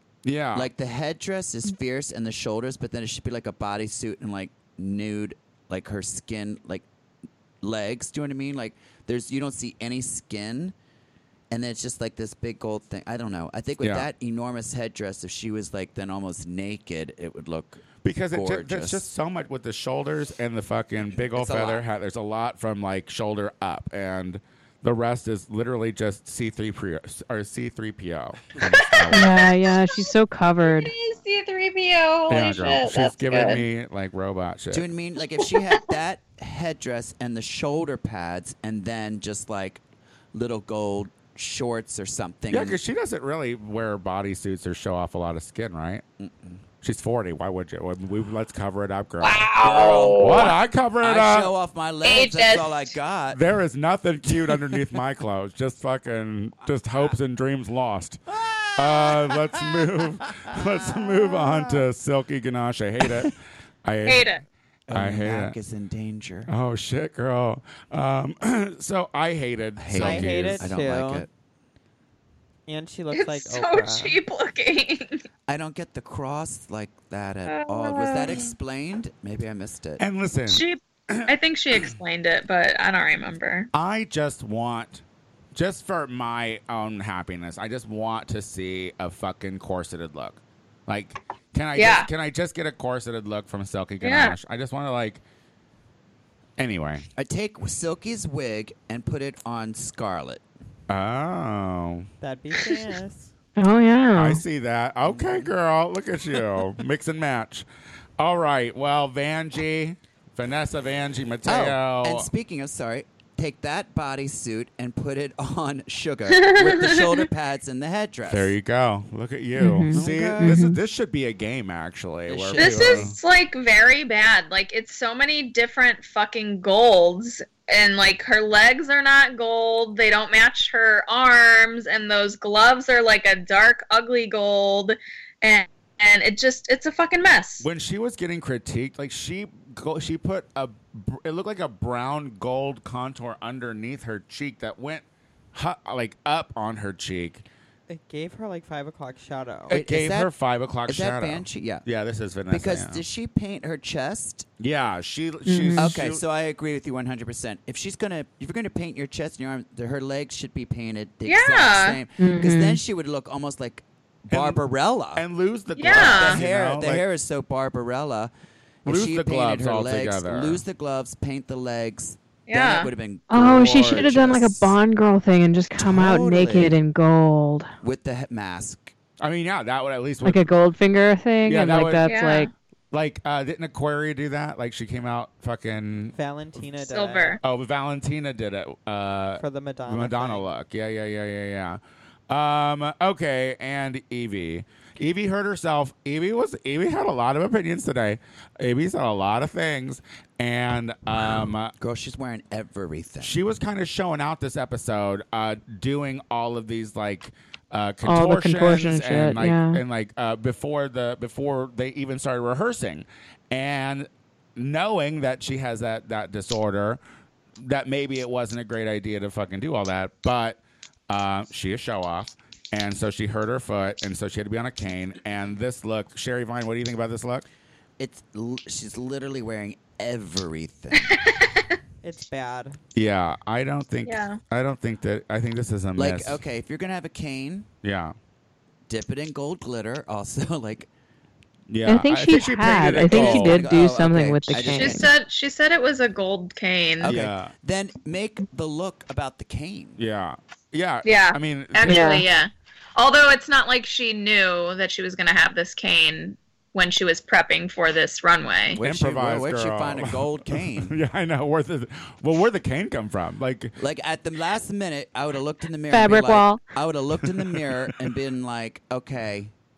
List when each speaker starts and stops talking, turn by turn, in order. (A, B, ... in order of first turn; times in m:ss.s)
0:00.2-0:00.7 A
0:00.5-0:06.8 B
0:07.6-0:10.7 B
0:11.5-0:19.1 B
0:13.8-0:14.1 A
0:18.0-0:29.4 A
0:21.2-0:21.8 B
0:28.6-0:33.6 C
0:29.1-0:30.9 D
0:32.3-0:34.9 A
0:34.7-0:39.8 B
0:35.4-0:35.9 C
0:40.3-0:42.8 B
0:42.5-0:46.0 A
0:46.2-0:46.6 B
0:46.8-0:49.5 A
0:49.2-0:50.6 C
0:49.6-0:53.4 B
0:50.1-0:51.5 A
0:52.0-0:52.9 C
0:53.3-0:58.2 A
0:54.5-0:54.8 B
0:58.3-1:01.8 B
0:58.8-1:04.3 A
1:04.0-1:04.4 C
1:04.9-1:06.5 B
1:04.9-1:05.5 A
1:06.5-1:10.7 A
1:09.8-1:11.3 B
1:09.9-1:11.3 E
1:12.7-1:14.2 E
1:13.1-1:15.2 C
1:15.5-1:20.0 B
1:17.5-1:18.5 C
1:20.0-1:21.3 A
1:20.5-1:23.7 C
1:23.7-1:25.0 A
1:25.5-1:35.2 A
1:31.8-1:32.1 C
1:34.0-1:34.3 C
1:36.6-1:37.0 A
1:37.2-1:40.4 B
1:40.9-1:42.1 A
1:42.2-1:43.3 E
1:43.6-1:44.4 D
1:44.1-1:47.6 A
1:45.0-1:45.5 B
1:48.2-1:52.3 A
1:51.4-1:58.5 B
1:56.3-1:57.3 C
1:58.3-2:03.2 A
1:59.6-2:00.8 D
1:59.9-2:00.7 B
2:02.3-2:03.1 B
2:02.6-2:17.7 C
2:17.6-2:27.4 A
2:27.9-2:29.7 E
2:29.7-2:33.0 A
2:29.7-2:30.3 B
2:30.9-2:31.8 B
2:32.5-2:34.5 B
2:34.6-2:36.2 A
2:35.5-2:35.9 D
2:35.8-2:45.2 B
2:41.2-2:42.0 C
2:42.2-2:42.8 D
2:44.3-2:44.6 A
2:45.2-2:47.0 A
2:45.8-2:46.4 C
2:45.9-2:48.3 B
2:48.8-2:54.8 B
2:48.8-2:50.6 A
2:52.5-2:52.9 C
2:53.3-2:57.7 D
2:55.8-2:56.7 B
2:57.8-2:58.9 B
2:59.2-3:00.4 A
3:00.2-3:02.5 D
3:01.4-3:02.1 A
3:02.0-3:02.5 C
3:02.9-3:06.1 A
3:06.1-3:07.4 E
3:06.8-3:07.4 C
3:07.4-3:21.7 A
3:09.4-3:10.5 E
3:21.8-3:23.4 B
3:23.2-3:37.0 A
3:28.0-3:29.8 D
3:37.6-3:47.4 A
3:48.0-3:51.2 B
3:51.0-3:51.8 C
3:52.0-3:52.8 E
3:52.9-3:56.4 A
3:54.0-3:54.4 C
3:56.0-3:57.7 B
3:57.8-3:58.1 A
3:58.9-4:00.9 B
4:01.7-4:03.6 A
4:01.9-4:05.1 D
4:02.8-4:05.1 B
4:04.6-4:07.1 C
4:07.0-4:10.0 B
4:07.0-4:07.5 A
4:10.0-4:12.0 A
4:11.0-4:18.8 C
4:11.8-4:12.2 D
4:18.7-4:21.0 B
4:18.8-4:23.8 A
4:23.8-4:29.5 B
4:25.9-4:26.6 D
4:27.5-4:28.0 A